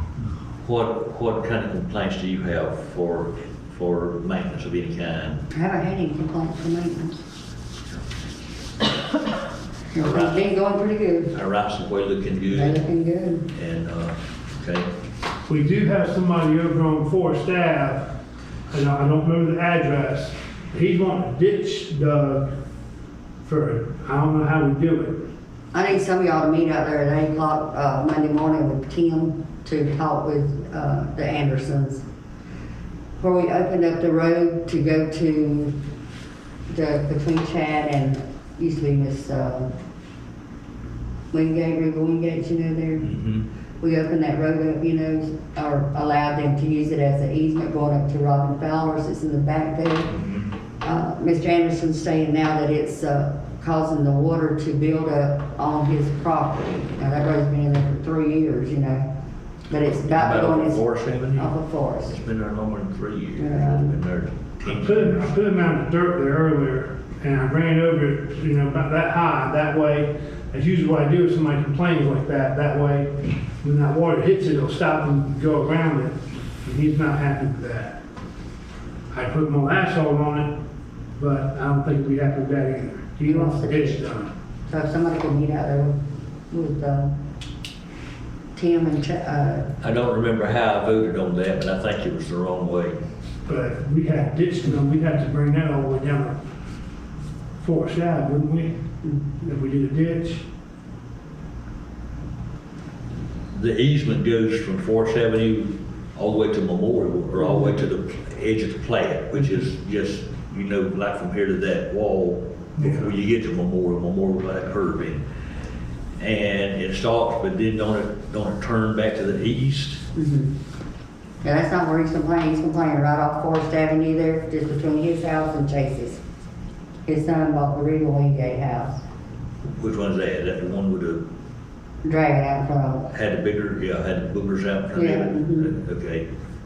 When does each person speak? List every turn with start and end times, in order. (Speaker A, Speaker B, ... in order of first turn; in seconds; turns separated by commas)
Speaker A: 0.6-5.4, Speaker B: 5.5-7.2, Speaker B: 9.9-11.3, Speaker A: 9.9-10.4, Speaker A: 11.3-12.8, Speaker B: 12.5-13.5, Speaker A: 13.5-14.9, Speaker C: 15.5-18.1, Speaker C: 18.7-22.5, Speaker C: 23.4-25.2, Speaker B: 25.7-32.0, Speaker B: 33.2-35.8, Speaker B: 36.7-39.7, Speaker B: 41.3-43.1, Speaker A: 43.0-43.4, Speaker B: 43.8-50.1, Speaker A: 50.1-50.5, Speaker B: 50.8-59.0, Speaker B: 59.7-60.8, Speaker A: 60.1-61.5, Speaker B: 61.3-62.1, Speaker A: 62.1-65.2, Speaker B: 63.4-64.0, Speaker C: 64.7-78.0, Speaker C: 79.1-80.5, Speaker C: 81.2-84.3, Speaker B: 83.3-84.0, Speaker B: 84.7-86.0, Speaker B: 86.5-87.1, Speaker B: 88.5-89.7, Speaker A: 89.8-93.0, Speaker C: 93.5-96.3, Speaker C: 97.6-98.7, Speaker C: 99.4-100.4, Speaker A: 103.5-115.2, Speaker C: 112.8-113.1, Speaker A: 116.2-120.0, Speaker B: 120.1-120.5, Speaker B: 121.4-126.2, Speaker B: 127.0-129.0, Speaker A: 129.7-131.2, Speaker B: 132.0-133.1, Speaker A: 133.1-136.2, Speaker B: 134.9-135.7